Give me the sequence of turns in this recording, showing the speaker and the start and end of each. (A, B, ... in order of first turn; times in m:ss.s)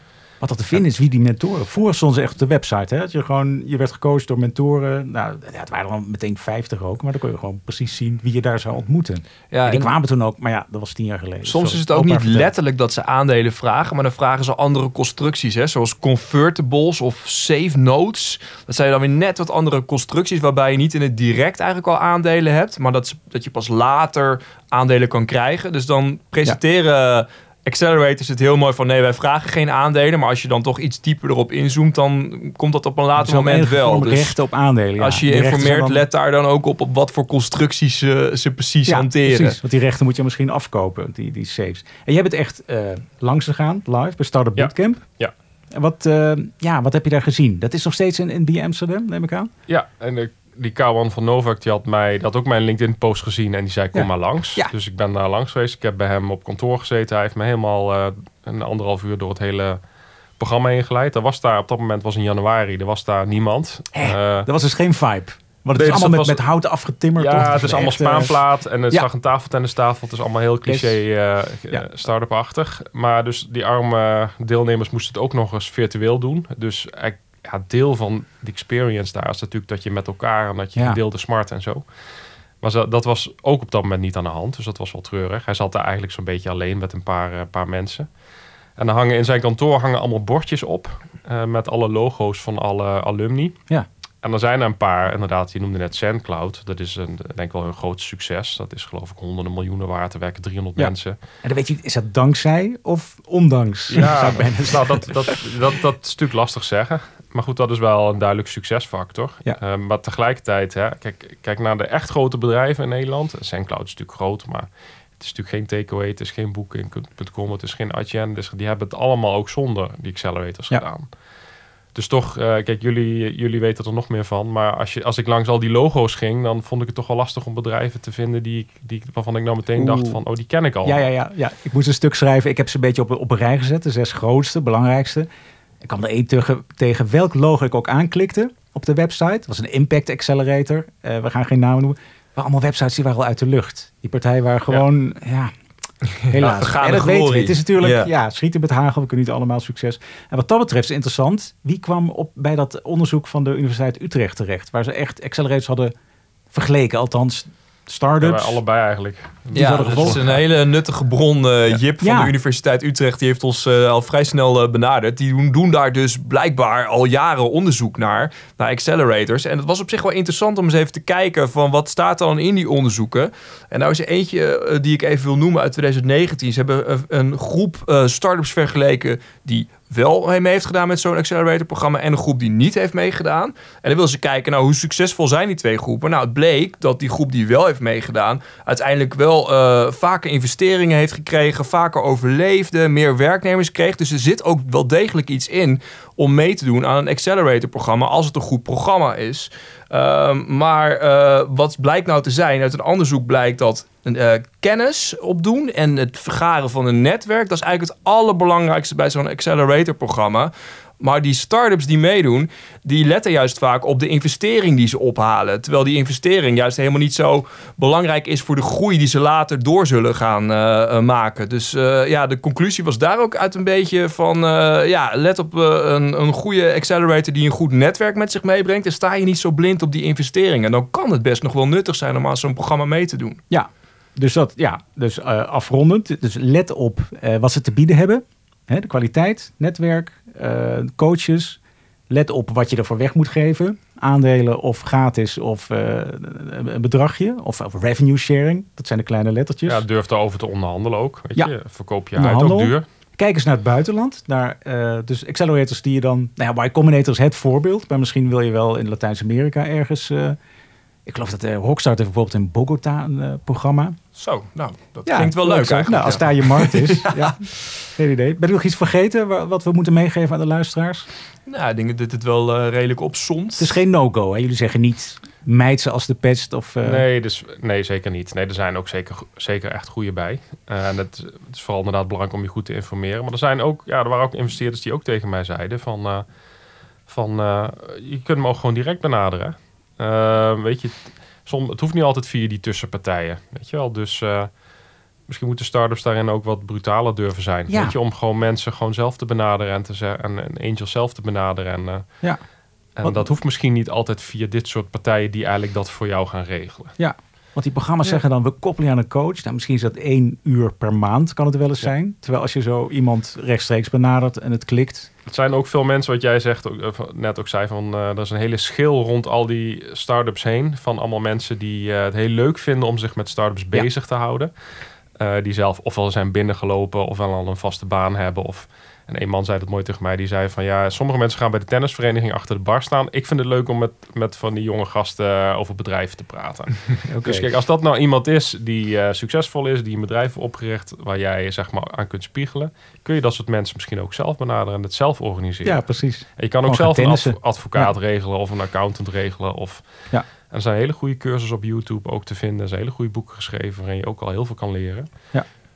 0:00.4-0:12.5 A
0:09.5-0:09.9 B
0:11.4-0:34.4 B
0:33.2-0:36.0 A
0:35.0-0:39.6 B
0:38.9-0:45.0 A
0:44.6-0:45.3 C
0:45.7-0:49.5 A
0:49.7-0:59.8 C
0:53.9-0:54.7 A
1:00.4-1:04.5 C
1:03.9-1:08.3 A
1:05.8-1:06.4 C
1:07.2-1:21.8 C
1:10.7-1:11.0 A
1:22.6-1:28.1 C
1:28.8-1:33.6 C
1:34.2-1:41.2 C
1:40.8-1:45.2 A
1:43.9-1:54.7 C
1:55.2-2:01.1 C
2:02.0-2:11.1 C
2:09.8-2:10.2 A
2:10.8-2:15.3 A
2:15.8-2:25.5 A
2:26.2-2:28.1 B
2:26.3-2:35.9 A
2:36.5-2:38.6 A
2:38.2-2:40.4 C
2:39.5-2:40.4 A
2:39.5-3:53.4 B
2:42.0-2:42.3 A
3:53.5-4:09.8 A
4:09.7-4:12.8 C
4:12.2-4:20.4 A
4:21.1-4:24.0 A
4:24.2-4:27.3 B
4:25.1-4:31.1 A
4:31.5-4:33.8 B
4:33.6-4:37.0 A
4:36.8-4:46.2 C
4:47.1-4:54.5 C
4:55.3-5:02.2 C
4:57.7-4:58.0 A
5:03.0-5:07.0 C
5:07.0-5:15.1 A
5:15.3-5:24.5 C
5:25.2-5:45.8 C
5:37.1-5:37.5 A
5:45.6-5:47.9 A
5:46.4-5:49.8 C
5:50.5-5:55.1 C